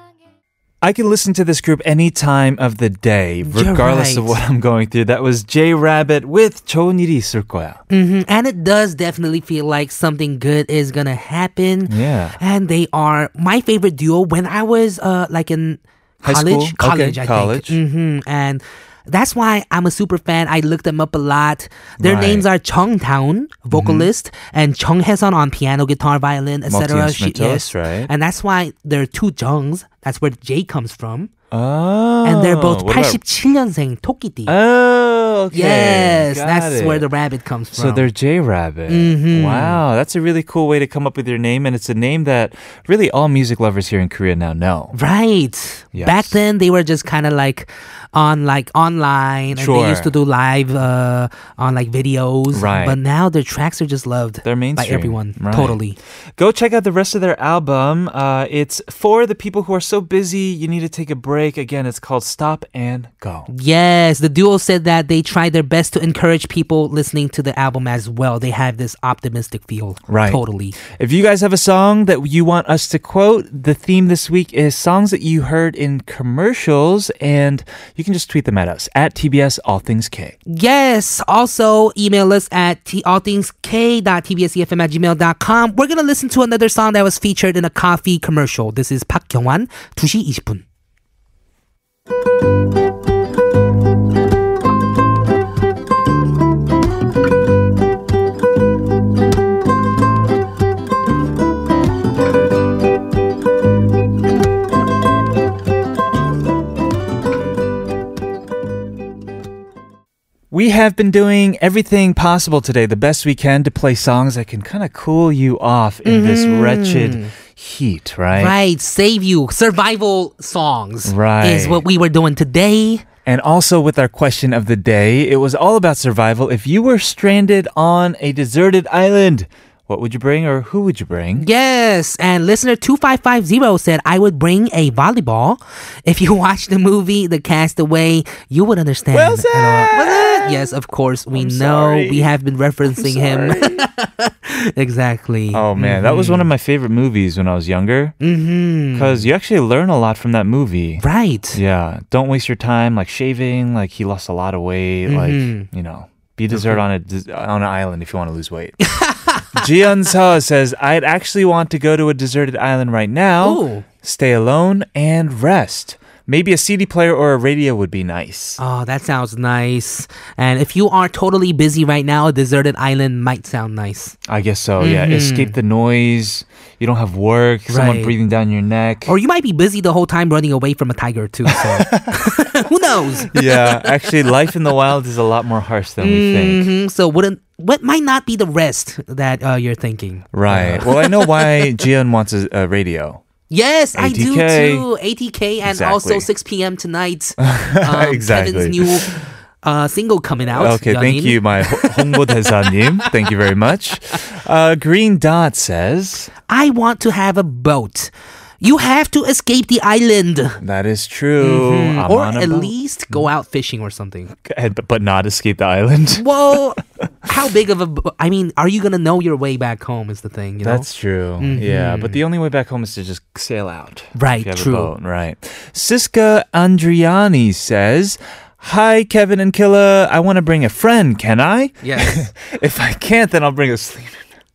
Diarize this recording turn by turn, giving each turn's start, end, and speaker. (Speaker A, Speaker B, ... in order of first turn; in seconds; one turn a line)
Speaker A: 0.8-7.8
Speaker B: 3.4-4.4
Speaker B: 7.9-31.3
Speaker A: 11.9-12.4
Speaker A: 16.2-17.8
Speaker A: 22.0-22.4
Speaker A: 23.7-24.1
Speaker A: 26.7-28.1
Speaker A: 31.5-33.2
Speaker B: 32.2-34.5
Speaker A: 34.5-37.1
Speaker B: 35.5-38.0
Speaker A: 37.7-45.0
Speaker B: 38.9-39.8
Speaker B: 44.9-56.0
Speaker A: 45.9-46.4
Speaker A: 49.5-50.1
Speaker A: 52.5-53.0
Speaker A: 54.4-55.8
Speaker A: 56.4-63.5
Speaker B: 63.5-70.8
Speaker A: 70.1-80.3
Speaker B: 80.5-90.6
Speaker A: 110.5-118.5
Speaker B: 116.0-117.3
Speaker B: 118.3-123.0
Speaker A: 121.0-121.8
Speaker A: 123.2-131.4
Speaker B: 131.4-146.5
Speaker A: 139.1-140.8
Speaker A: 141.3-142.3
Speaker A: 142.9-143.8
Speaker A: 145.5-148.2
Speaker B: 148.2-149.2
Speaker A: 148.9-158.8
Speaker B: 151.0-151.6
Speaker B: 155.1-155.7
Speaker B: 156.5-156.8
Speaker B: 158.9-159.5
Speaker A: 159.5-168.6
Speaker B: 163.4-163.8
Speaker B: 168.6-174.1
Speaker A: 174.3-179.1
Speaker B: 174.8-175.5
Speaker B: 177.7-178.1
Speaker B: 179.1-183.9
Speaker A: 181.5-182.4
Speaker A: 183.2-186.7
Speaker B: 186.0-191.8
Speaker A: 190.3-193.2
Speaker B: 193.5-203.1
Speaker A: 193.9-194.8
Speaker A: 195.6-196.3
Speaker A: 197.4-199.2
Speaker A: 200.6-206.3
Speaker B: 206.5-210.6
Speaker A: 210.6-213.3
Speaker B: 211.4-214.3
Speaker A: 214.4-216.4
Speaker B: 216.2-220.8
Speaker A: 220.6-234.2
Speaker B: 221.4-222.2
Speaker B: 224.2-224.9
Speaker B: 231.8-232.3